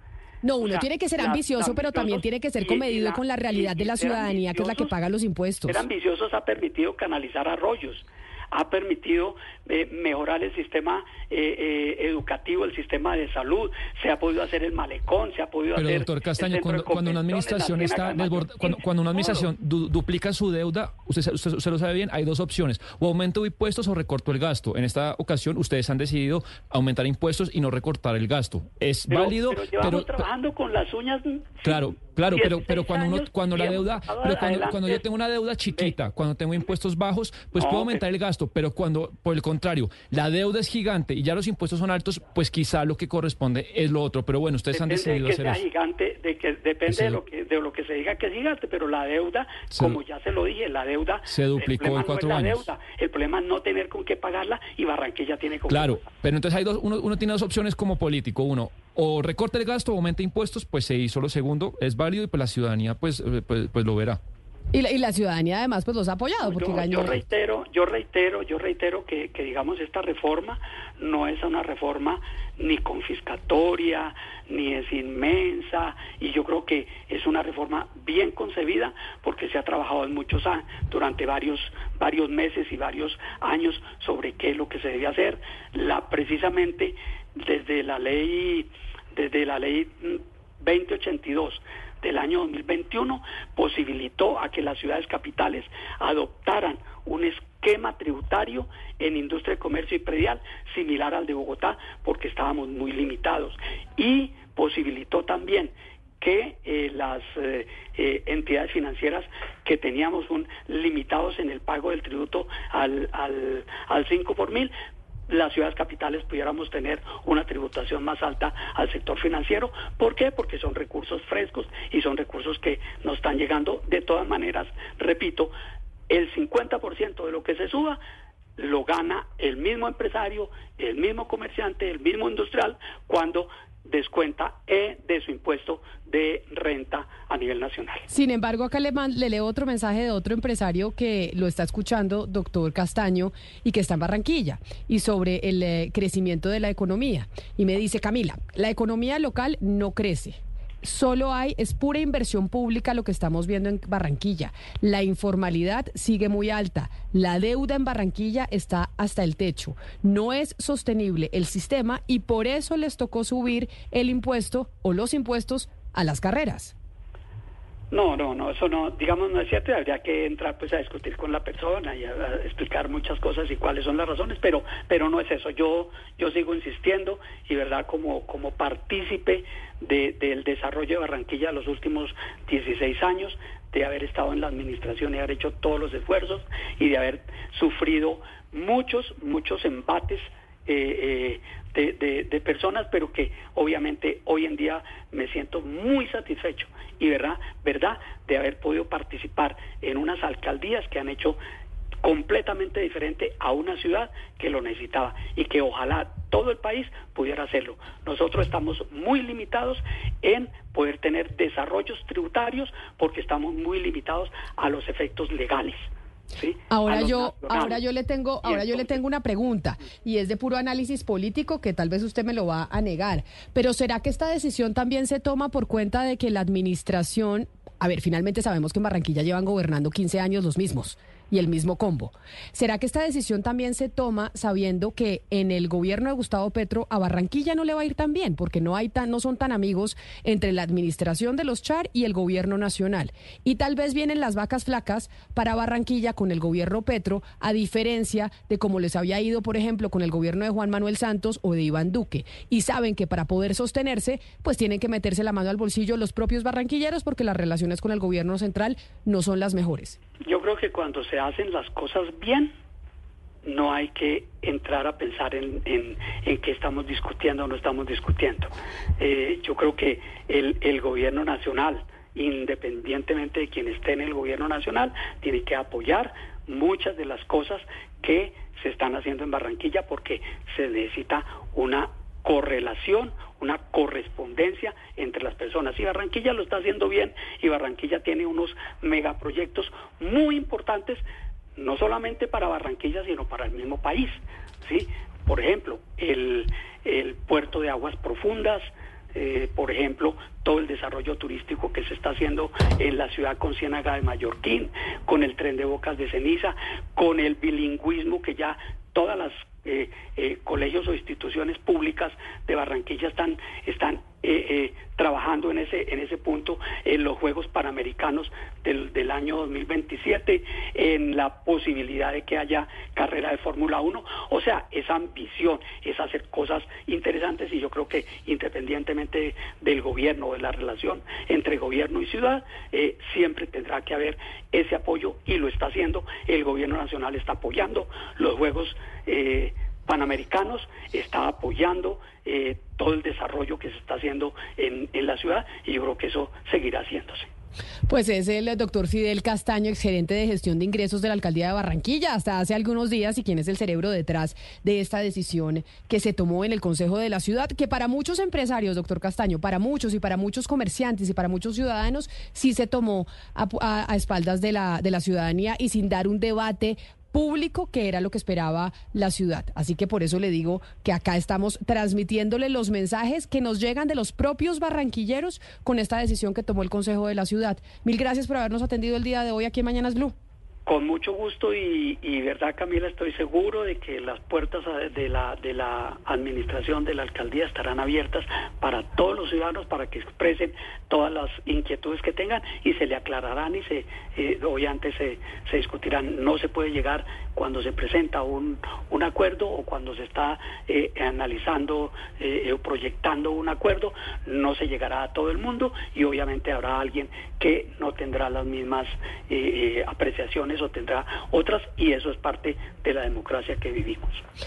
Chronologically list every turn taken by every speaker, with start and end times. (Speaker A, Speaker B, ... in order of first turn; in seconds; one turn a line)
Speaker A: 0.4-5.8
Speaker B: 0.6-4.9
Speaker B: 5.7-19.5
Speaker C: 15.8-30.2
Speaker B: 29.1-35.0
Speaker C: 31.6-45.6
Speaker B: 37.5-38.0
Speaker B: 44.7-56.0
Speaker C: 46.9-47.2
Speaker C: 49.7-50.0
Speaker C: 51.3-52.7
Speaker C: 55.7-64.2
Speaker A: 64.7-67.2
Speaker B: 66.4-114.7
Speaker B: 115.3-125.5
Speaker B: 126.1-128.0
Speaker B: 128.6-138.1
Speaker A: 138.1-166.7
Speaker B: 167.9-201.4
Speaker B: 202.0-215.9
Speaker B: 216.4-217.8
Speaker A: 216.7-260.0
Speaker B: 218.4-219.0
Speaker B: 260.2-262.5
Speaker B: 263.4-291.0
Speaker B: 291.6-347.3
Speaker A: 347.9-380.1
Speaker B: 380.6-414.2